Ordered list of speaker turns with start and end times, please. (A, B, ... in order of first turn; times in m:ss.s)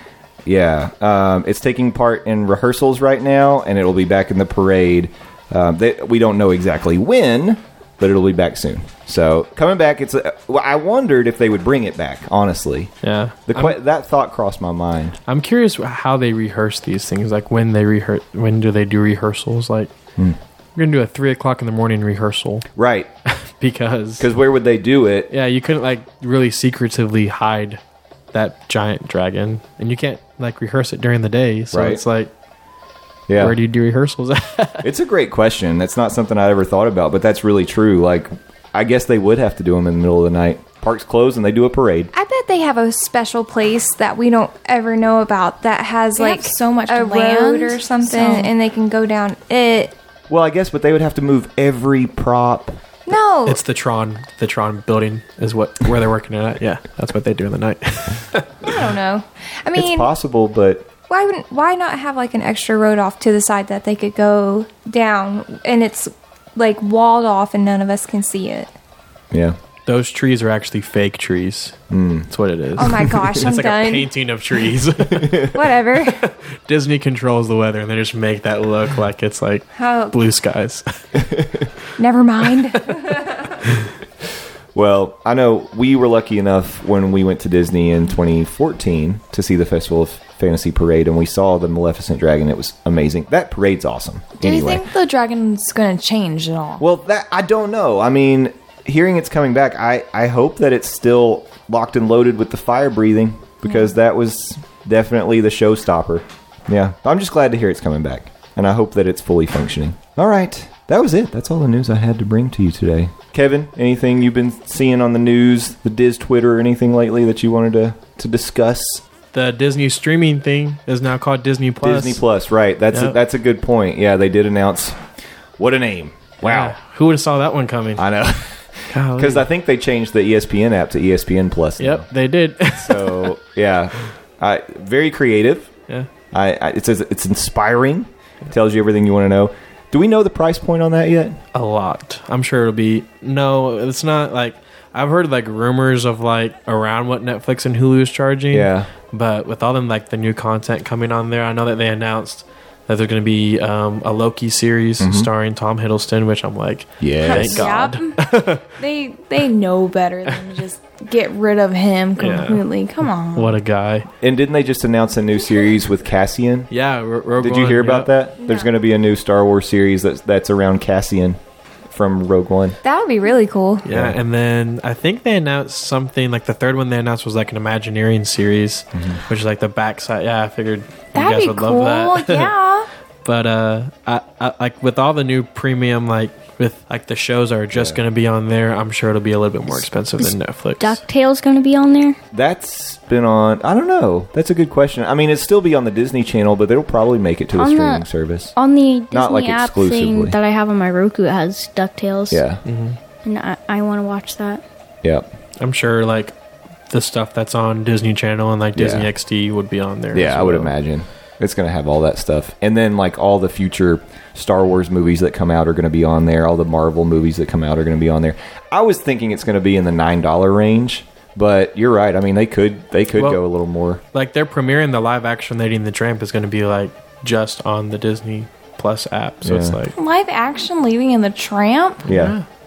0:00.4-0:12.9 A
0:13.0-0:13.8 B
0:13.5-0:15.2 A
0:15.3-0:19.9 B
0:20.8-0:22.6 B
0:22.8-0:23.1 A
0:23.3-0:24.3 B
0:24.2-0:25.3 A
0:25.3-0:27.8 B
0:28.3-0:32.3 B
0:31.7-0:32.0 A
0:33.3-0:33.6 A
0:33.4-0:34.9 B
0:34.8-0:42.1 A
0:42.1-0:49.9 C
0:46.1-0:48.5 D
0:50.3-0:52.8 A
0:53.1-0:53.6 C
0:53.4-0:58.5 B
0:58.6-1:00.1 C
0:59.7-1:00.9 A
1:01.1-1:08.7 C
1:09.3-1:09.6 A
1:09.8-1:11.8 B
1:11.9-1:12.3 A
1:12.3-1:15.4 B
1:12.8-1:14.1 C
1:12.8-1:13.3 A
1:15.1-1:15.6 A
1:15.4-1:16.2 C
1:16.0-1:20.8 B
1:19.7-1:20.2 C
1:21.2-1:21.7 A
1:22.0-1:23.6 C
1:24.7-1:34.8 A
1:34.4-1:36.8 D
1:36.8-1:59.0 A
1:59.3-2:02.2 B
2:01.8-2:05.0 A
2:02.9-2:03.2 B
2:05.6-2:06.8 A
2:06.4-2:08.0 B
2:08.0-2:12.0 A
2:08.9-2:09.4 B
2:11.8-2:13.3 B
2:12.7-2:15.7 A
2:16.3-2:21.4 A
2:21.5-2:38.6 B
2:28.5-2:28.9 A
2:35.0-2:35.3 A
2:37.0-2:37.7 A
2:37.2-2:43.6 D
2:42.2-2:42.6 B
2:43.3-2:44.1 B
2:44.2-2:46.7 A
2:46.7-2:48.1 B
2:47.4-2:51.4 A
2:51.9-2:52.8 A
2:52.8-2:53.8 C
2:53.8-3:02.5 B
2:53.9-2:54.2 A
2:58.9-2:59.2 A
3:01.1-3:02.9 D
3:03.2-3:11.0 B
3:07.7-3:08.0 A
3:10.2-3:12.2 E
3:12.3-3:18.5 A
3:17.5-3:22.4 E
3:19.1-3:20.4 A
3:22.3-3:22.6 A
3:22.6-3:23.0 B
3:23.2-3:24.6 E
3:25.0-3:25.3 A
3:25.6-3:26.3 B
3:26.9-3:30.7 B
3:28.7-3:29.1 A
3:30.1-3:44.0 A
3:44.1-3:49.9 B
3:49.4-3:49.8 A
3:49.9-3:52.0 D
3:52.0-3:52.4 A
3:52.1-3:52.4 B